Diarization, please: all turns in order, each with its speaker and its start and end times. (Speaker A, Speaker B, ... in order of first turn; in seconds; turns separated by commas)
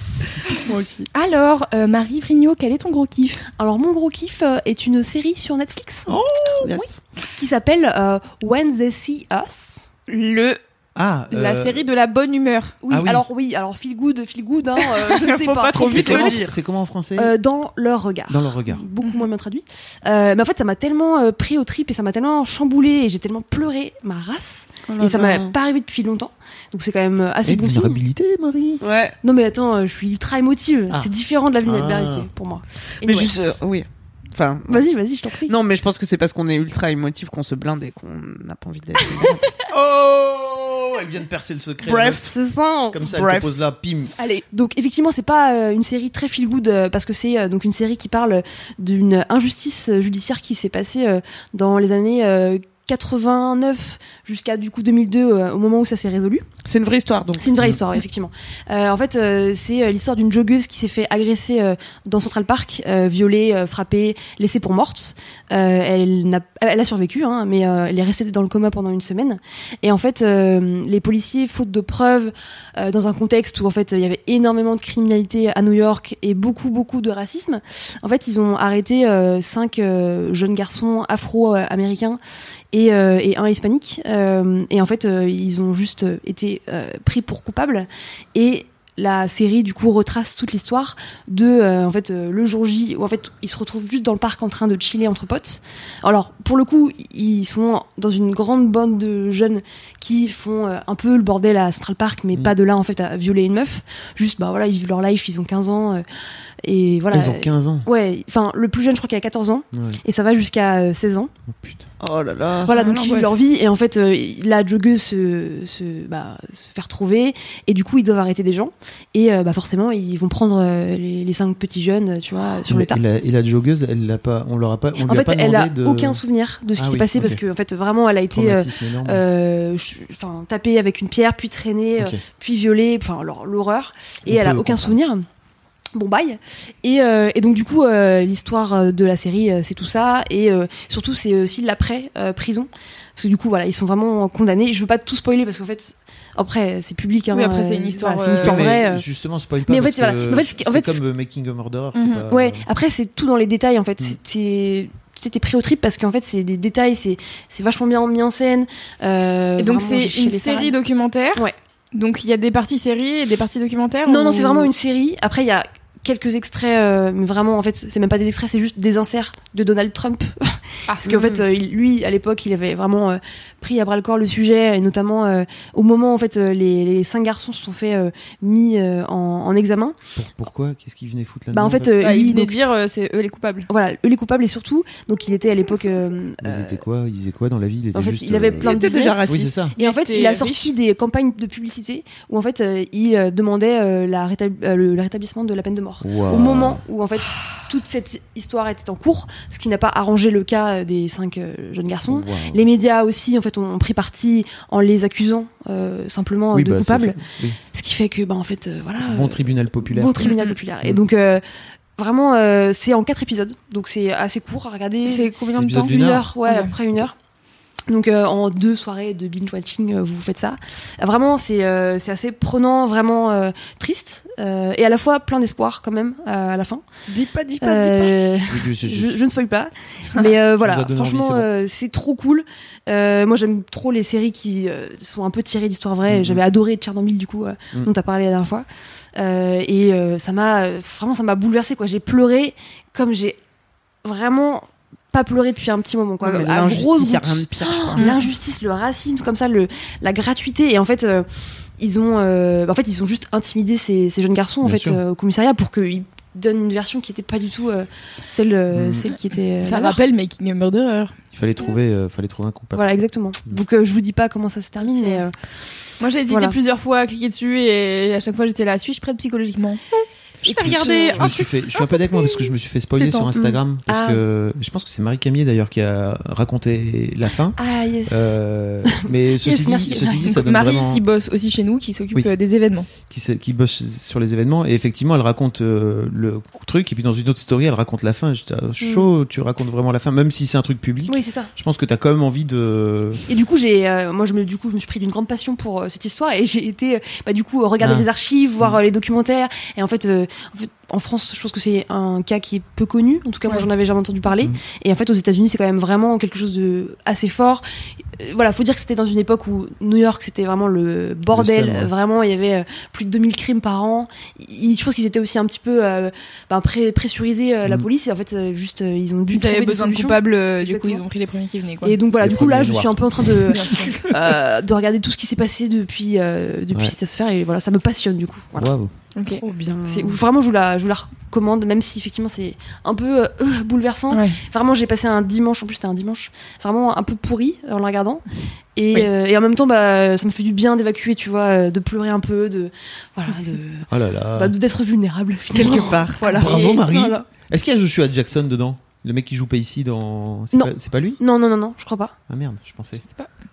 Speaker A: 0.3-1.1, Speaker B: 1.1-3.5, Speaker C: 3.6-6.1, Speaker D: 6.1-6.7, Speaker A: 6.1-6.9, Speaker C: 6.8-9.8, Speaker B: 10.1-10.6, Speaker D: 10.9-11.9, Speaker B: 11.3-12.8, Speaker C: 12.8-16.5, Speaker D: 12.9-13.2, Speaker A: 15.1-16.6, Speaker D: 15.9-17.3, Speaker C: 17.2-28.0, Speaker D: 18.3-18.9, Speaker A: 24.9-25.6, Speaker D: 27.4-28.8, Speaker A: 28.8-29.1, Speaker C: 29.2-33.3, Speaker D: 31.6-32.3, Speaker A: 33.0-34.9, Speaker C: 34.7-35.5, Speaker A: 35.5-39.5, Speaker D: 39.7-42.2, Speaker A: 41.8-42.4, Speaker C: 42.3-43.0, Speaker D: 42.9-44.1, Speaker A: 43.1-43.5, Speaker B: 44.2-44.5, Speaker C: 44.5-56.5, Speaker A: 56.7-57.5, Speaker C: 57.4-82.2, Speaker C: 82.7-106.0, Speaker C: 106.6-111.3, Speaker D: 107.1-107.9, Speaker D: 109.7-110.0, Speaker D: 111.5-111.9, Speaker A: 112.0-112.7, Speaker C: 112.6-123.0, Speaker B: 112.7-113.3, Speaker D: 122.7-126.2, Speaker C: 125.0-135.2, Speaker D: 126.8-127.4, Speaker D: 128.3-129.2, Speaker D: 134.3-134.9, Speaker C: 135.9-149.0, Speaker B: 147.3-148.7, Speaker D: 148.4-152.7, Speaker C: 149.7-151.0, Speaker B: 151.9-152.2, Speaker C: 152.3-160.8, Speaker B: 159.6-164.7, Speaker C: 164.1-179.9, Speaker D: 180.2-182.2, Speaker C: 181.5-182.6, Speaker B: 182.0-183.7, Speaker C: 183.7-186.8, Speaker D: 186.4-188.7, Speaker C: 187.9-211.4, Speaker A: 188.5-189.5, Speaker D: 189.2-189.7, Speaker B: 189.8-190.7, Speaker D: 196.0-196.8, Speaker D: 202.1-202.7, Speaker D: 206.5-207.6, Speaker D: 209.0-211.0, Speaker B: 210.2-210.6, Speaker C: 212.0-217.1, Speaker B: 215.1-216.7, Speaker D: 215.5-216.3, Speaker C: 217.9-226.8, Speaker A: 227.1-228.4, Speaker C: 227.6-243.4, Speaker D: 228.4-229.2, Speaker D: 230.6-231.5, Speaker D: 236.1-236.4, Speaker C: 244.0-251.3, Speaker A: 246.2-248.2, Speaker C: 251.8-260.0, Speaker D: 254.6-255.0, Speaker D: 258.7-259.1, Speaker B: 259.6-261.1, Speaker D: 261.3-263.6, Speaker C: 262.7-265.4, Speaker B: 266.0-269.8, Speaker C: 266.3-266.6, Speaker D: 270.4-281.0, Speaker C: 270.4-271.4, Speaker B: 270.6-271.4, Speaker B: 273.0-273.3, Speaker C: 273.9-274.2, Speaker C: 277.6-278.4, Speaker C: 279.4-280.4, Speaker B: 280.4-282.9, Speaker D: 283.0-293.2, Speaker C: 288.8-289.1, Speaker C: 291.1-291.5, Speaker C: 293.3-307.6, Speaker D: 297.8-298.1, Speaker C: 308.1-321.0, Speaker D: 311.3-311.9, Speaker B: 319.3-321.9, Speaker C: 321.8-328.7, Speaker D: 322.2-323.6, Speaker B: 323.5-323.9, Speaker D: 328.6-328.9, Speaker B: 329.2-329.4, Speaker A: 329.3-330.2, Speaker C: 329.9-338.2, Speaker B: 334.1-334.4, Speaker C: 338.8-347.3, Speaker D: 343.9-344.5, Speaker A: 345.5-346.5, Speaker D: 346.2-351.2, Speaker C: 350.5-352.2, Speaker D: 352.3-353.0